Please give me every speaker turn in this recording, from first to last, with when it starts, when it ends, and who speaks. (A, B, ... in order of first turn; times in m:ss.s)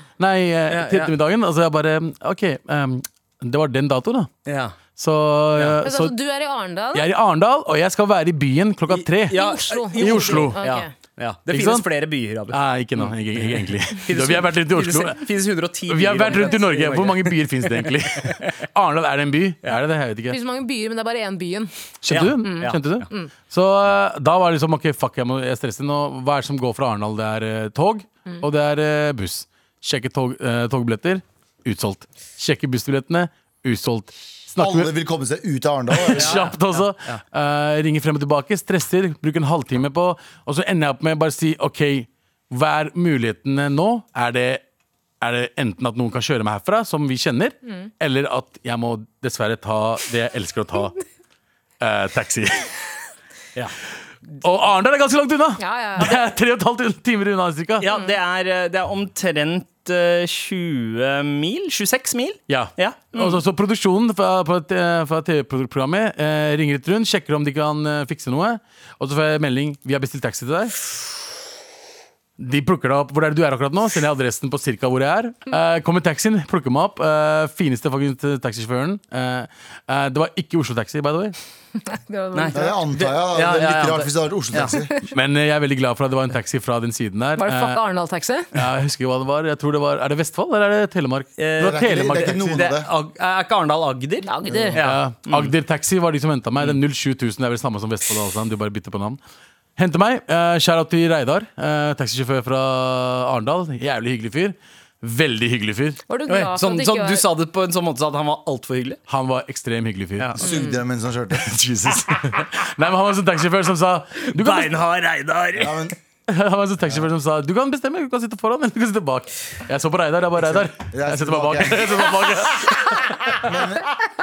0:00.2-0:04.3 A
0:00.7-0:01.1 B
0:04.5-0:04.8 B
0:04.9-0:06.2 A
0:05.8-0:07.1 C
0:06.9-0:10.6 A
0:08.9-0:18.5 B
0:09.3-0:10.9 C
0:11.5-0:11.9 A
0:12.5-0:15.2 A
0:15.9-0:20.4 A
0:20.3-0:21.7 C
0:22.0-0:34.9 A
0:22.1-0:22.8 B
0:22.4-0:23.3 C
0:34.6-0:36.4 D
0:36.0-0:44.6 A
0:36.1-0:37.2 B
0:45.2-0:50.9 A
0:51.8-0:52.7 A
0:54.4-0:57.8 A
0:55.6-0:56.1 C
0:57.8-1:03.4 B
1:02.5-1:10.8 A
1:12.4-1:21.4 A
1:21.8-1:22.8 C
1:22.3-1:24.7 B
1:22.5-1:24.9 D
1:25.1-1:27.8 A
1:27.4-1:28.5 C
1:28.5-1:32.6 A
1:31.4-1:35.5 B
1:31.6-1:32.9 D
1:34.2-1:34.8 C
1:34.8-1:39.2 A
1:39.8-1:46.0 A
1:46.1-1:47.2 C
1:46.3-1:49.0 B
1:49.1-1:50.3 A
1:50.4-1:51.5 D
1:50.4-1:50.7 C
1:51.4-1:54.7 A
1:54.2-1:55.9 B
1:55.6-1:55.9 D
1:56.3-2:02.9 A
2:00.4-2:02.0 D
2:03.4-2:03.9 D